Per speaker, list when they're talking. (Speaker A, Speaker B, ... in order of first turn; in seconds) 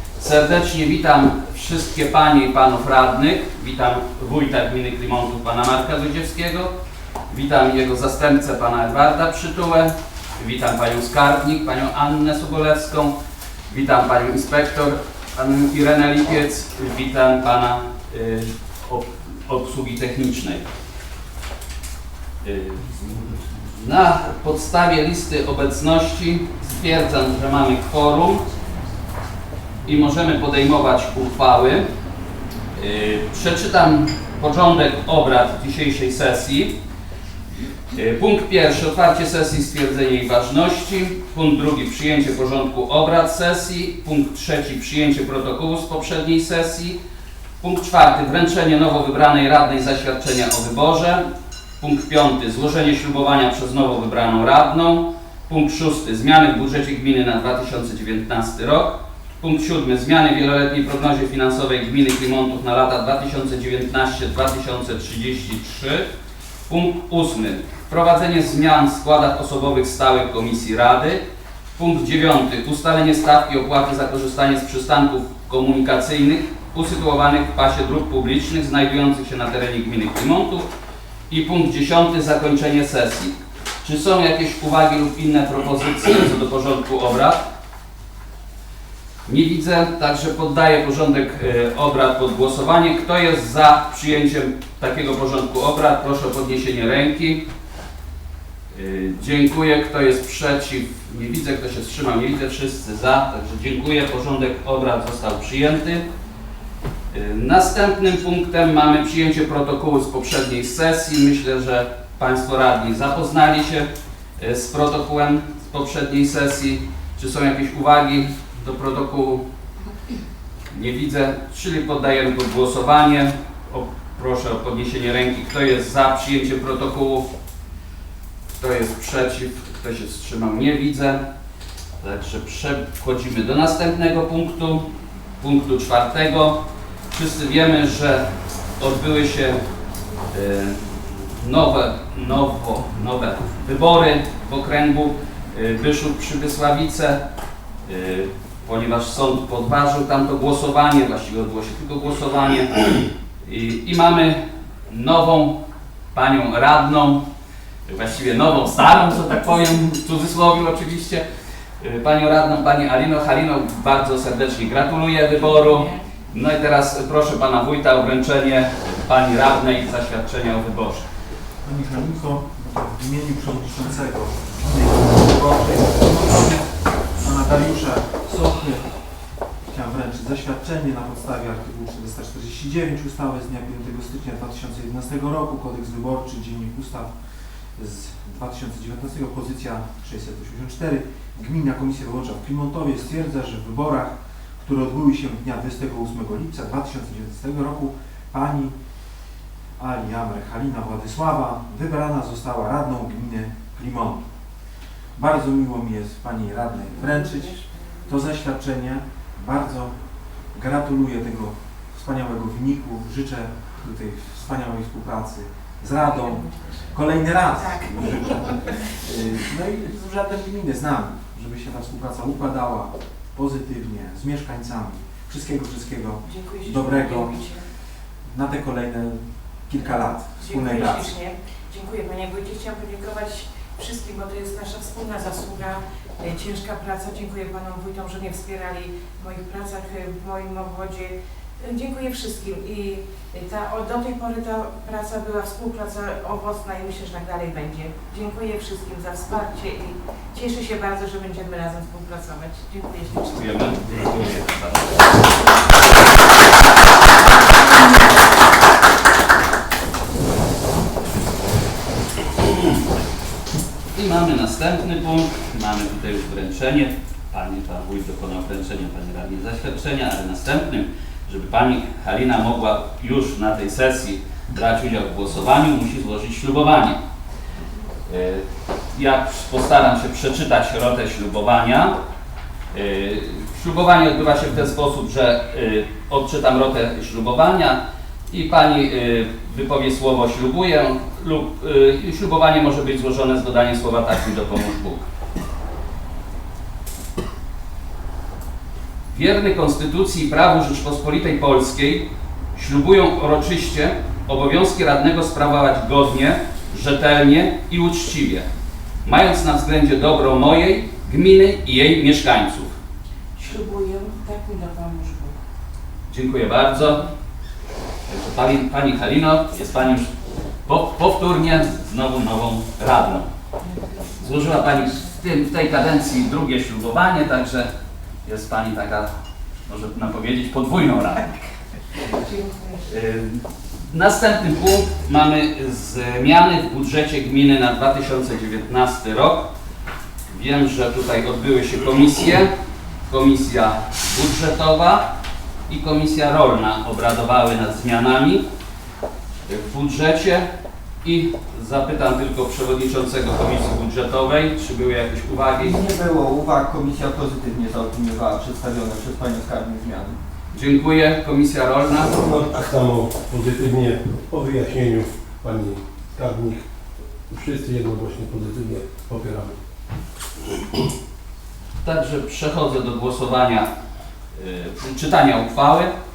Speaker A: 0.2-6.7, 7.3-13.1, 13.7-20.7, 22.4-28.4, 29.9-31.9, 32.8-36.8, 37.9-47.0, 47.6-51.2, 51.8-66.1, 66.7-71.2, 71.8-80.7, 81.3-87.4, 89.3-97.4, 98.7-106.0, 107.1-119.4, 120.7-127.3, 128.6-131.2, 132.0-134.8, 135.4-136.6, 137.1-138.3, 138.8-139.6, 140.3-147.2, 147.9-152.9, 153.4-155.6, 156.1-157.2, 157.9-161.2, 161.8-171.1, 253.2-254.9, 263.9-277.0, 278.1-282.0, 282.7-295.1, 299.1-308.5, 309.1-312.8, 316.1-317.1, 318.1-320.1, 320.7-323.3, 324.2-327.7, 328.2-329.1, 329.7-331.4, 332.9-339.5, 340.3-342.5, 343.1-345.1, 345.7-348.4, 349.5-350.5, 351.0-355.8, 360.5-362.2, 371.8-373.7, 374.4-375.9
Speaker B: 171.6-178.9, 179.7-187.1, 187.8-198.8, 199.8-204.2, 205.2-210.0, 210.5-227.4, 228.3-231.1
Speaker C: 217.6-218.1, 226.3-227.5, 230.4-253.4, 313.4-315.3, 332.1-332.8
Speaker D: 355.6-360.2
Speaker E: 362.0-366.6, 367.3-369.6